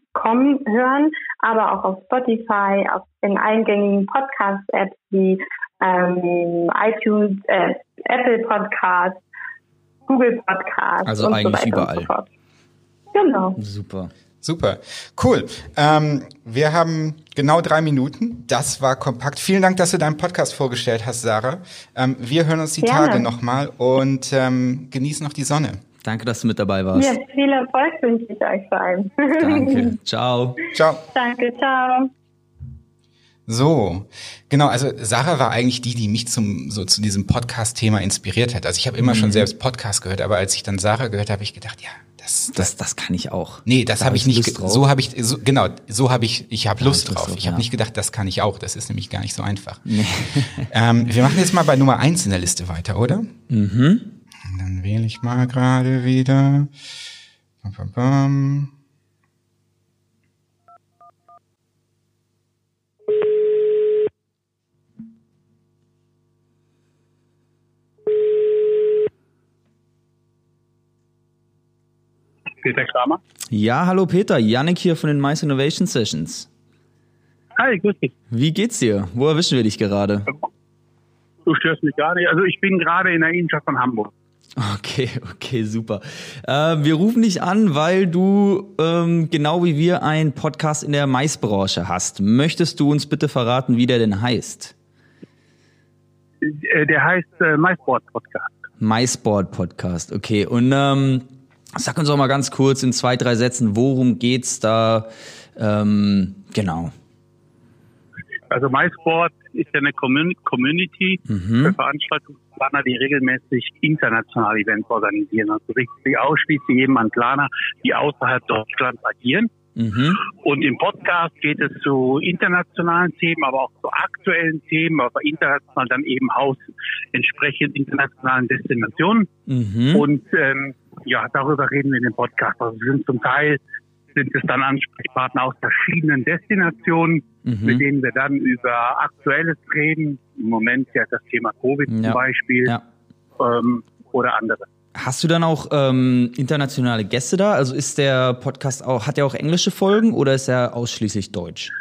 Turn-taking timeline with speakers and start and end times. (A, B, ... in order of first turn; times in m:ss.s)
0:00.2-0:09.2 A
0:10.1-0:12.3 A
0:11.0-0:12.1 B
0:13.1-0:13.6 A
0:13.6-0:14.1 B
0:14.4-0:25.8 C
0:22.8-0:23.3 A
0:26.0-0:27.2 B
0:27.0-0:30.0 A
0:29.4-0:30.6 B
0:30.7-0:31.0 C
0:31.1-0:32.1 A
0:33.5-0:42.7 C
0:39.0-0:39.5 B
0:42.5-0:44.8 B
0:43.7-0:49.9 C
0:46.8-0:47.6 B
0:49.9-0:50.7 B
0:50.6-0:53.3 C
0:53.5-0:54.1 B
0:54.5-0:56.7 C
0:57.6-0:58.7 C
1:12.6-1:13.2 D
1:13.5-1:16.5 B
1:17.6-1:18.1 D
1:18.3-1:20.3 B
1:21.5-1:24.1 D
1:24.6-1:34.7 B
1:36.4-1:38.5 D
1:38.8-1:46.9 B
1:48.5-1:59.5 D
1:51.3-1:51.8 B
1:59.8-2:00.2 B
2:00.4-2:09.3 D
2:09.5-2:10.0 B
2:09.9-2:13.6 D
2:14.1-2:22.7 D
2:17.4-2:17.8 B
2:21.9-2:22.8 B
2:23.4-2:24.7 D
2:25.0-2:31.7 B